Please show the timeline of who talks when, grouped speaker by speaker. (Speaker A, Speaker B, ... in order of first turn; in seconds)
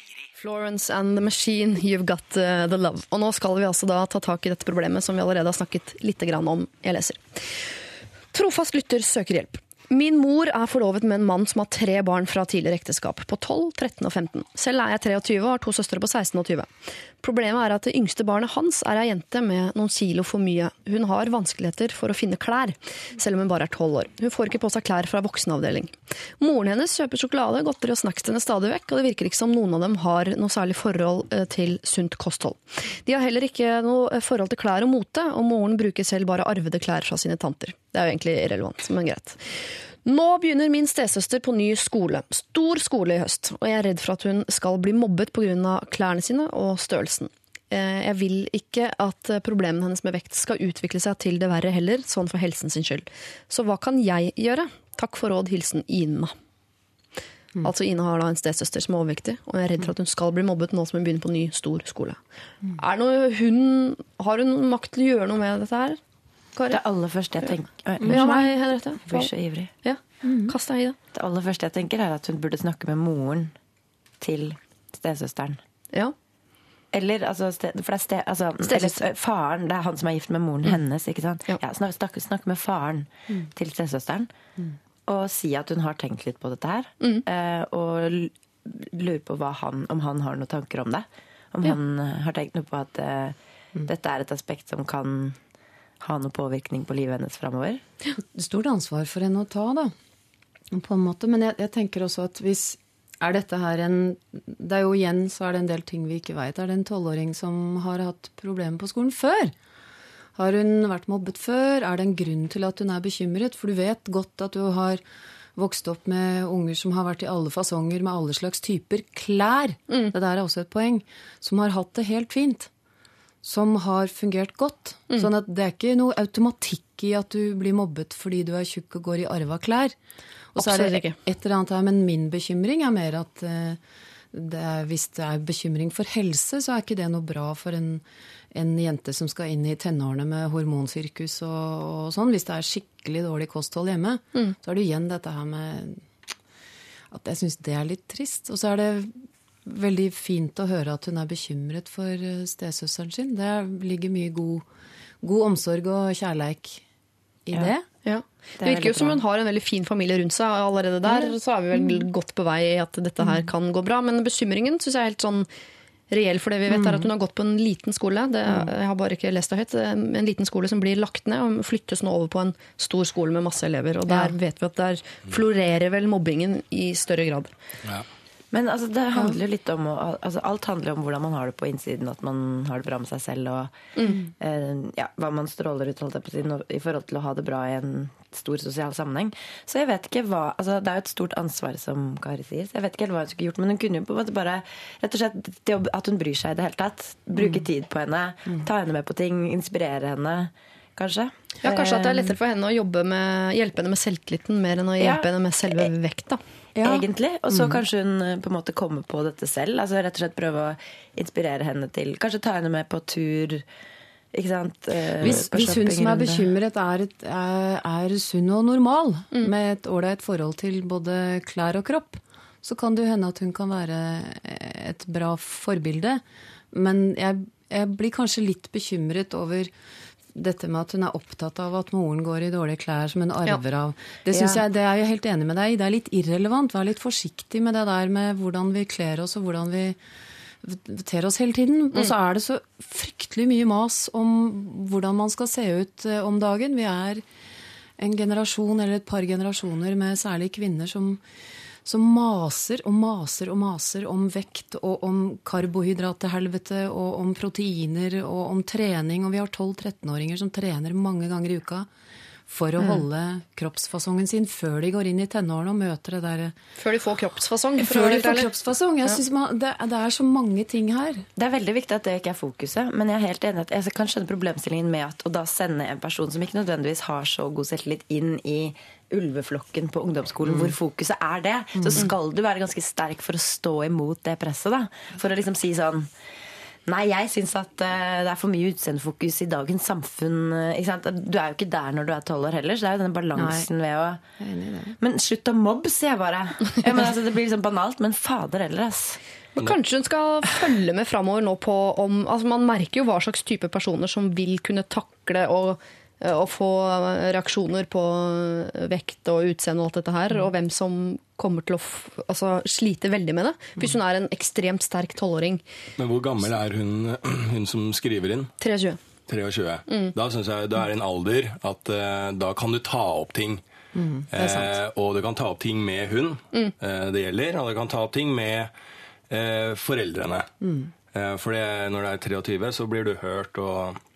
Speaker A: 0.4-7.3, 8.3-56.3, 57.6-62.2, 62.7-66.0, 68.0-69.3, 69.8-71.0, 78.7-79.0, 130.6-131.2, 158.0-165.5, 166.1-177.5, 183.9-184.2, 201.6-206.4, 266.8-268.5, 299.6-315.6, 318.6-319.0
Speaker B: 66.7-68.4, 69.0-69.7, 71.1-73.5, 74.2-75.6, 76.9-84.3, 85.1-95.4, 96.0-97.8, 158.6-159.2, 178.5-183.8, 184.4-202.3, 205.0-205.9, 206.8-213.6, 214.3-216.5, 234.3-234.6, 271.4-286.1, 286.9-294.2, 295.0-299.2
Speaker C: 68.0-68.4, 70.2-70.5, 98.2-99.9, 100.7-109.5, 110.3-115.0, 115.5-122.7, 123.4-129.9, 130.5-133.8, 134.3-146.0, 147.1-149.1, 149.6-154.7, 155.2-156.8, 157.4-157.8, 161.0-162.1, 163.2-163.5, 166.7-167.1, 174.1-174.3, 197.3-197.6, 206.8-207.8, 215.2-229.7, 230.3-240.0, 240.6-247.2, 248.0-251.2, 251.8-261.9, 262.5-266.5, 267.8-271.2, 280.4-280.7, 281.8-282.1, 293.4-293.7, 294.4-295.0, 323.9-324.8, 330.6-330.9
Speaker D: 316.0-318.5, 319.3-323.6, 324.3-328.7, 329.3-330.5, 331.1-334.0